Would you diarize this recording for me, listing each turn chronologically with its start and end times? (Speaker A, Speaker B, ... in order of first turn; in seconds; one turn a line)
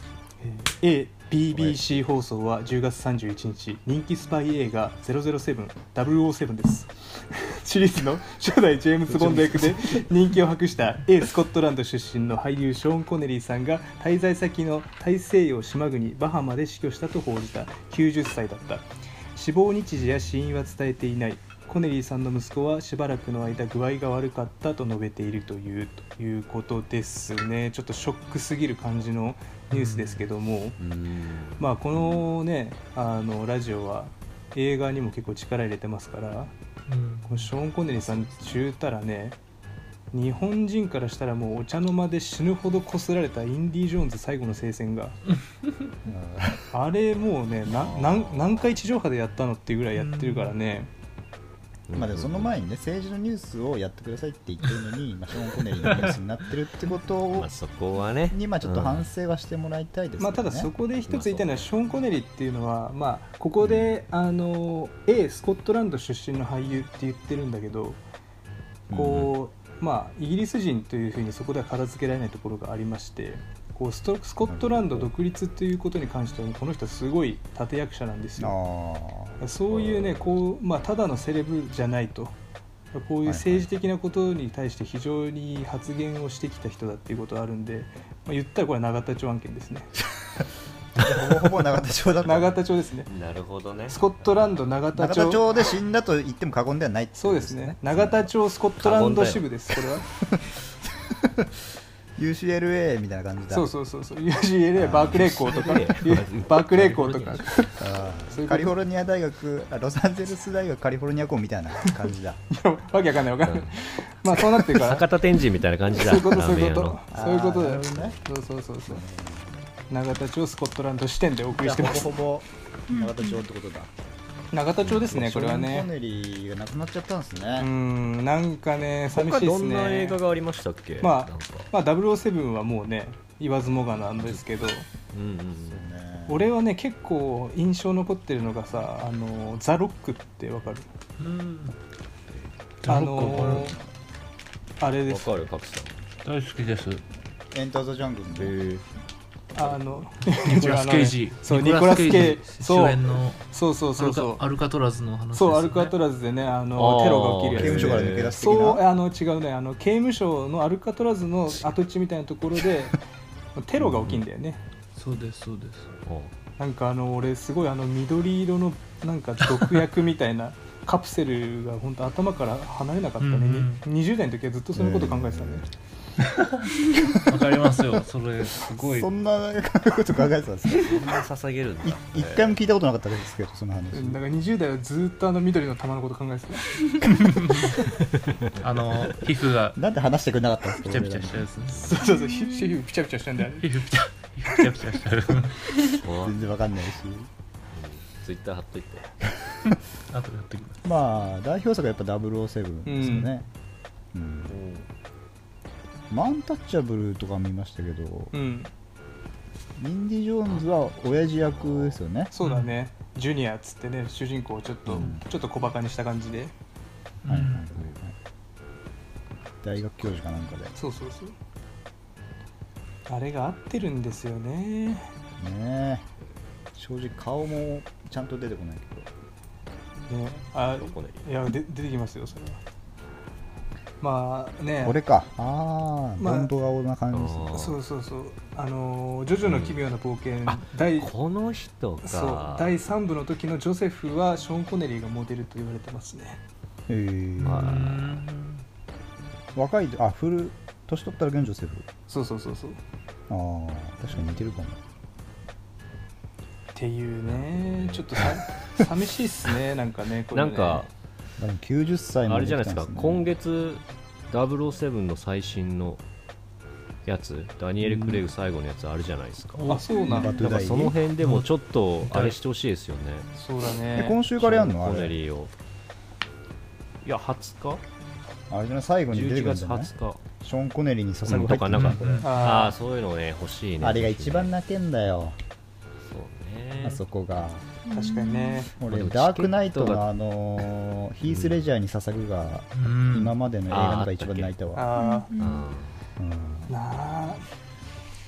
Speaker A: 0.4-30.8
Speaker B: 1.5-1.9
Speaker C: 9.1-10.0
Speaker D: 29.7-30.2
Speaker C: 30.8-31.7
Speaker A: 31.6-36.5
Speaker D: 36.9-37.5
Speaker A: 37.3-39.4
Speaker B: 38.0-38.6
Speaker A: 40.1-45.2
Speaker B: 46.0-46.7
Speaker A: 46.7-50.9
Speaker B: 47.8-48.2
Speaker C: 48.1-48.6
Speaker D: 50.0-50.5
Speaker C: 51.9-52.5
Speaker B: 51.9-57.5
Speaker C: 57.3-59.0
Speaker B: 58.3-60.7
Speaker A: 60.2-68.0
Speaker C: 61.1-61.6
Speaker B: 68.9-69.3
Speaker A: 68.9-78.5
Speaker B: 74.5-75.1
Speaker B: 78.4-79.4
Speaker A: 79.4-82.3
Speaker C: 79.7-80.3
Speaker A: 82.9-89.9
Speaker B: 83.2-83.8
Speaker B: 91.0-92.6
Speaker A: 92.2-93.1
Speaker C: 93.1-94.7
Speaker A: 93.9-95.5
Speaker B: 94.9-98.3
Speaker A: 97.2-100.1
Speaker C: 98.8-99.5
Speaker B: 101.1-101.5
Speaker B: 102.2-103.7
Speaker A: 103.5-107.7
Speaker B: 104.8-105.2
Speaker C: 105.1-107.9
Speaker B: 107.8-112.4
Speaker A: 108.3-108.7
Speaker A: 112.5-115.1
Speaker C: 113.4-113.8
Speaker C: 114.6-117.0
Speaker A: 115.9-119.0
Speaker B: 117.1-118.2
Speaker B: 118.8-119.5
Speaker A: 119.9-122.1
Speaker B: 121.5-123.9
Speaker E: 122.9-123.3
Speaker A: 124.5-125.9
Speaker C: 124.8-125.2
Speaker B: 125.0-127.7
Speaker A: 127.6-130.2
Speaker C: 129.1-131.7
Speaker A: 131.0-134.8
Speaker C: 135.1-135.8
Speaker B: 135.6-136.5
Speaker A: 136.3-140.9
Speaker D: 141.2-141.8
Speaker D: 142.8-143.8
Speaker A: 142.8-143.8
Speaker A: 144.8-145.3
Speaker C: 145.0-146.0
Speaker D: 146.2-147.0
Speaker B: 147.5-148.5
Speaker C: 148.3-148.8
Speaker A: 149.5-154.4
Speaker D: 150.3-156.0
Speaker A: 155.3-163.0
Speaker C: 156.7-158.4
Speaker B: 157.5-158.8
Speaker A: 163.5-164.6
Speaker D: 164.9-166.0
Speaker C: 166.1-166.3
Speaker A: 166.6-175.7
Speaker D: 173.2-173.8
Speaker B: 174.7-175.7
Speaker D: 176.3-179.1
Speaker B: 178.8-181.2
Speaker C: 180.7-182.6
Speaker B: 181.8-184.2
Speaker A: 183.9-187.2
Speaker D: 187.3-187.7
Speaker D: 188.6-189.8
Speaker B: 189.7-191.5
Speaker D: 190.8-191.9
Speaker C: 191.7-192.0
Speaker A: 191.7-193.8
Speaker E: 192.0-192.8
Speaker D: 193.6-195.7
Speaker C: 196.0-196.4
Speaker B: 196.2-197.3
Speaker C: 197.7-199.1
Speaker D: 200.1-200.8
Speaker B: 200.8-203.4
Speaker A: 202.8-203.3
Speaker B: 204.1-204.5
Speaker C: 204.5-204.8
Speaker B: 206.1-208.3
Speaker A: 208.3-208.7
Speaker B: 209.8-212.3
Speaker C: 211.2-212.0
Speaker A: 212.3-216.5
Speaker D: 212.4-212.8
Speaker B: 214.9-215.2
Speaker D: 217.2-217.7
Speaker B: 217.3-218.1
Speaker B: 219.6-220.8
Speaker A: 220.8-221.3
Speaker A: 223.1-225.1
Speaker B: 225.4-226.1
Speaker B: 226.8-229.1
Speaker A: 230.1-232.6
Speaker C: 230.7-231.2
Speaker A: 234.0-235.0
Speaker B: 234.8-237.6
Speaker A: 236.2-236.5
Speaker C: 237.1-237.8
Speaker A: 237.5-241.1
Speaker C: 239.4-239.8
Speaker C: 240.4-242.7
Speaker A: 242.0-246.4
Speaker B: 246.9-248.2
Speaker C: 247.4-248.0
Speaker D: 247.5-248.6
Speaker B: 249.5-251.9
Speaker A: 252.1-252.8
Speaker B: 253.3-254.8
Speaker C: 254.1-254.5
Speaker A: 256.7-260.9
Speaker C: 257.3-258.2
Speaker C: 260.3-260.9
Speaker B: 261.4-263.3
Speaker C: 262.3-266.0
Speaker C: 267.1-273.3
Speaker B: 267.8-268.2
Speaker D: 269.6-270.2
Speaker A: 269.7-270.7
Speaker B: 270.1-271.0
Speaker D: 271.2-271.5
Speaker D: 272.1-272.4
Speaker A: 273.4-274.2
Speaker B: 273.9-275.1
Speaker C: 274.4-275.5
Speaker C: 277.0-277.8
Speaker B: 278.5-282.5
Speaker C: 279.1-280.2
Speaker C: 281.2-284.5
Speaker D: 281.7-282.3
Speaker A: 282.2-282.8
Speaker B: 283.8-285.4
Speaker C: 286.1-287.0
Speaker B: 286.8-287.7
Speaker E: 287.9-288.7
Speaker A: 287.9-288.7
Speaker B: 288.8-294.9
Speaker C: 288.9-290.1
Speaker C: 291.3-291.6
Speaker D: 292.7-293.3
Speaker C: 293.7-294.5
Speaker A: 294.8-295.3
Speaker E: 294.9-295.6
Speaker C: 295.4-296.0
Speaker B: 296.2-296.7
Speaker A: 296.7-297.4